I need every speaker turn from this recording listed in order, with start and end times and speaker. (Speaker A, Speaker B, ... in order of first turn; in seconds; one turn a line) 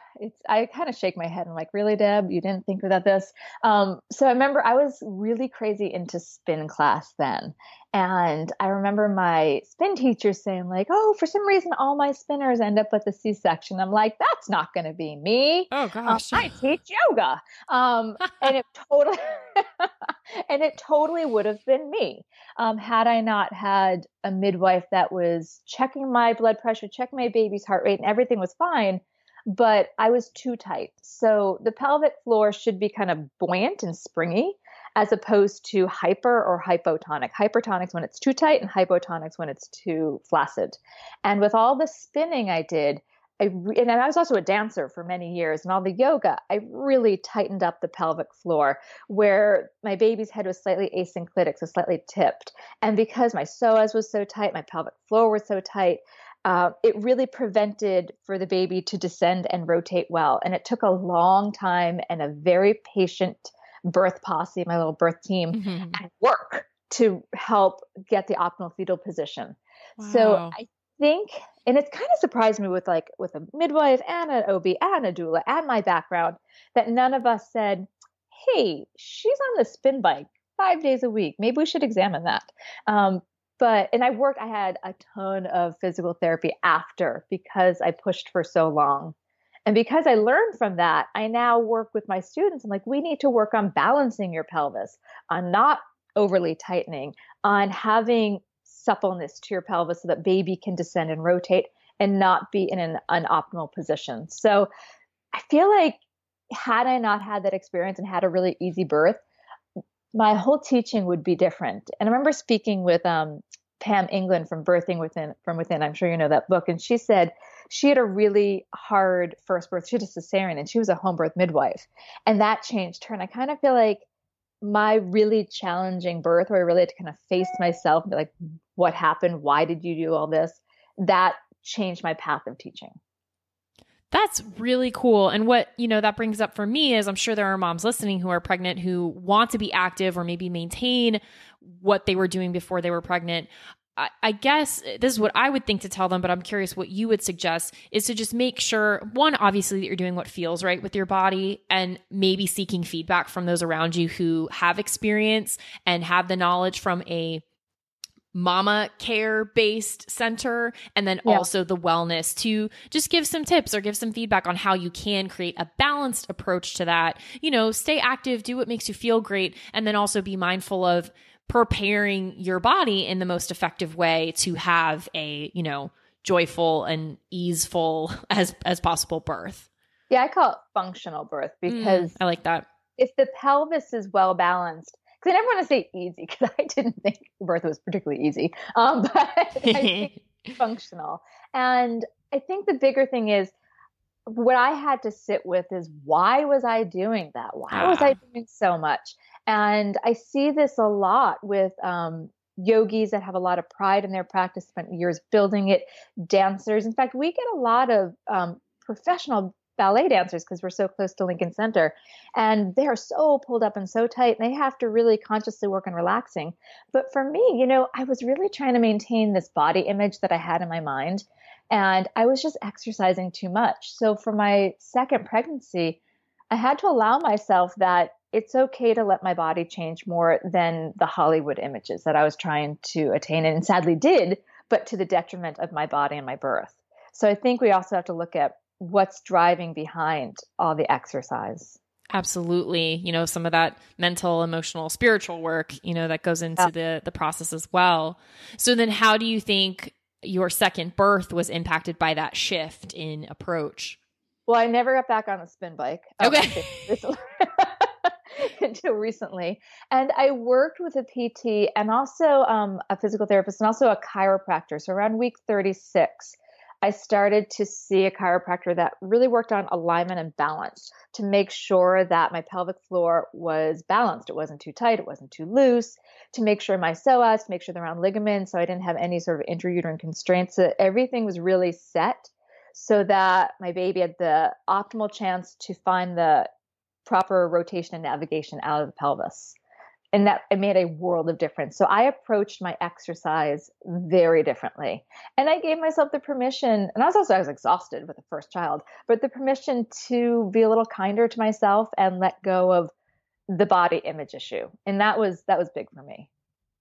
Speaker A: 0.2-89.2
Speaker B: 15.7-16.5
Speaker B: 65.5-66.0
Speaker B: 70.0-70.6
Speaker A: 89.7-104.7
Speaker A: 105.3-106.0
Speaker A: 106.5-109.2
Speaker A: 110.1-124.1
Speaker A: 124.6-133.0
Speaker B: 134.1-157.4
Speaker B: 158.3-179.7
Speaker A: 180.1-182.2
Speaker B: 181.7-182.7
Speaker A: 183.0-193.5
Speaker B: 189.6-190.2
Speaker A: 194.3-226.0
Speaker B: 197.7-198.2
Speaker A: 226.5-241.8
Speaker B: 242.1-254.0
Speaker A: 254.5-286.5
Speaker B: 256.2-256.9
Speaker A: 287.1-289.6
Speaker A: 290.1-302.9
Speaker A: 303.5-306.3